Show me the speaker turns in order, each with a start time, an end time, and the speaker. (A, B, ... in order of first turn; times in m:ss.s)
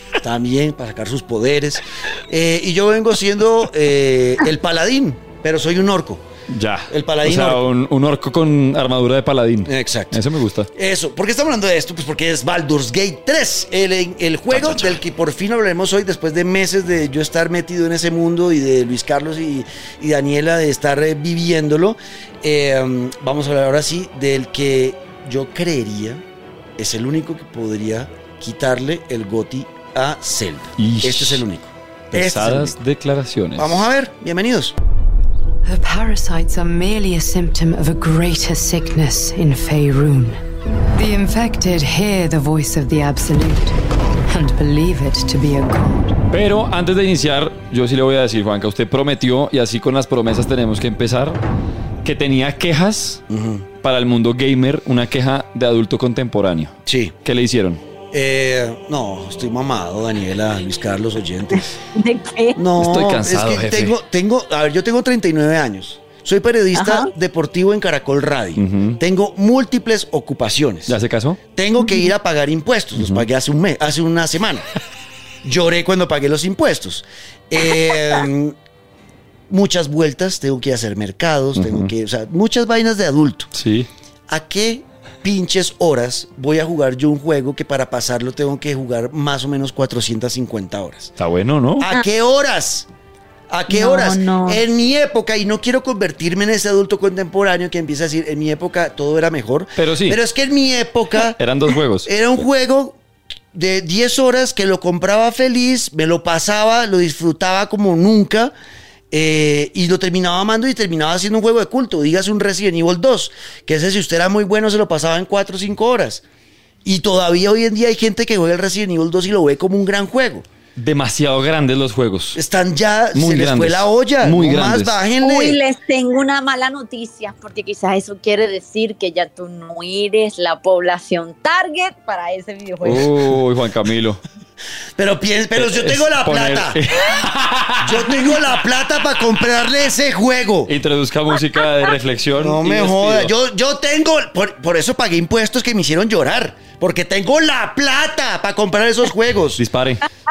0:00.2-0:06.2 A
0:06.5-0:10.7 B
0:06.9-0:07.6 A
0:09.6-0:10.2 A
0:10.7-0:26.2 A
0:14.5-0:15.0 B
0:26.8-0:32.8 A
0:30.8-0:31.4 B
0:32.1-0:33.9 B
0:33.6-0:34.7 A
0:35.6-0:40.4 C
0:40.9-0:43.8 C
0:44.3-0:46.1 C
0:46.3-0:51.4 B
0:52.0-0:53.2 B
0:53.3-0:53.6 A
0:53.8-0:57.8 B
0:56.8-0:57.1 A
0:58.1-1:01.6 A
1:01.5-1:02.6 D
1:02.6-1:11.0 A
1:02.8-1:04.0 B
1:06.7-1:07.1 D
1:08.6-1:09.0 B
1:10.9-1:11.4 B
1:11.5-1:14.7 A
1:13.0-1:13.2 B
1:15.4-1:18.5 A
1:19.5-1:23.5 A
1:21.5-1:21.9 B
1:23.5-1:23.9 B
1:24.3-1:31.1 A
1:31.2-1:31.9 B
1:31.8-1:32.9 A
1:33.5-1:41.4 A
1:33.7-1:34.6 D
1:39.8-1:40.2 B
1:41.3-1:42.1 B
1:42.0-1:43.0 A
1:43.5-1:48.5 A
1:49.1-1:56.2 A
1:56.8-2:00.4 A
2:00.8-2:02.4 B
2:02.3-2:05.6 A
2:03.1-2:05.0 B
2:05.2-2:13.2 D
2:12.8-2:14.2 B
2:15.0-2:16.8 A
2:15.6-2:18.2 B
2:17.8-2:20.7 A
2:20.7-2:23.3 B
2:22.3-2:29.6 A
2:29.6-2:30.0 B